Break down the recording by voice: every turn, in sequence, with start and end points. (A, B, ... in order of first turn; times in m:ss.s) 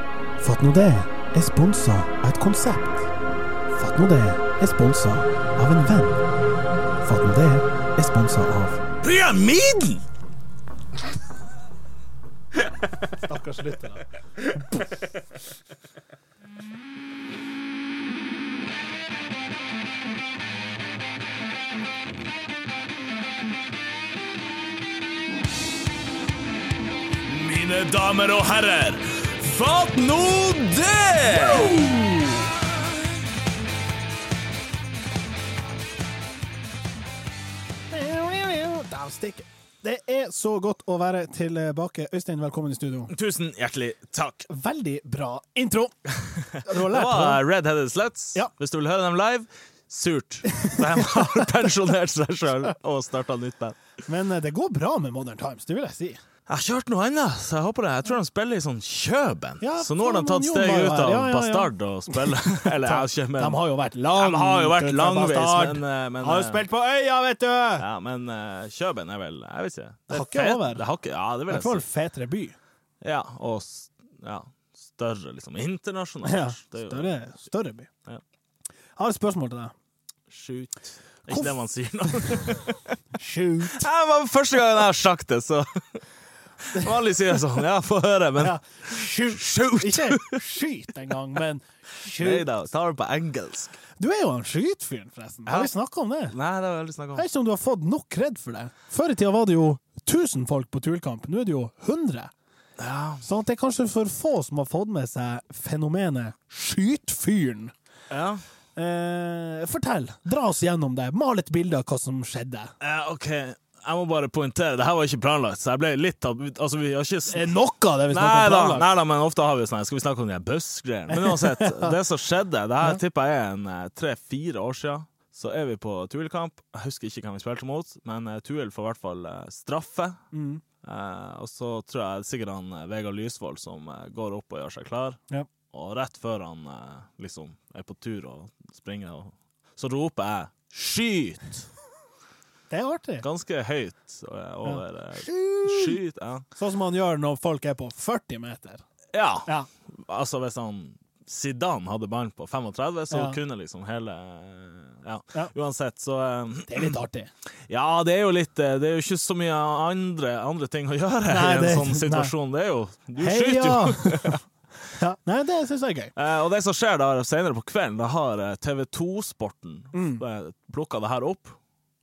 0:00.4-0:03.1 A
0:03.7-0:06.2 A
0:07.0-0:08.9 A
0:09.0-0:10.0 B
0:13.1-0:14.0 A
0:27.2-0:31.9 B
0:31.4-0:32.4 A
0:37.9-0:43.1 A
0:43.1-0:44.5 B
0:44.5-0:46.0 A
0:46.1-0:53.8 B
0:46.5-0:47.4 A
0:50.5-0:51.7 A
0:54.0-0:56.2 A
0:56.5-1:03.6 B
0:59.6-1:07.8 A
1:04.1-1:06.6 B
1:07.8-1:11.8 B
1:10.1-1:10.8 A
1:11.5-1:12.6 A
1:13.0-1:17.1 B
1:16.2-1:17.9 A
1:19.0-1:19.7 A
1:20.3-1:23.0 B
1:21.3-1:21.6 A
1:22.1-1:22.6 A
1:23.2-1:23.9 A
1:23.7-1:26.0 B
1:26.6-1:30.4 B
1:28.4-1:32.5 A
1:32.2-1:33.7 B
1:34.0-1:36.3 A
1:35.4-1:35.7 B
1:36.3-1:37.2 B
1:37.1-1:42.3 A
1:42.8-1:43.2 B
1:43.2-1:47.7 A
1:48.1-1:48.4 B
1:48.8-1:52.7 A
1:52.8-1:57.5 B
1:57.3-1:58.9 A
1:58.1-2:10.2 B
2:01.1-2:02.0 A
2:10.3-2:10.6 A
2:10.8-2:15.2 B
2:15.7-2:21.7 B
2:22.7-2:23.2 A
2:23.2-2:26.4 B
2:24.6-2:26.0 A
2:26.6-2:28.8 A
2:29.1-2:36.9 B
2:33.1-2:33.4 A
2:36.7-2:37.3 A
2:37.7-2:44.4 B
2:41.3-2:42.3 A
2:43.2-2:46.1 A
2:46.2-2:51.6 B
2:49.9-2:50.2 A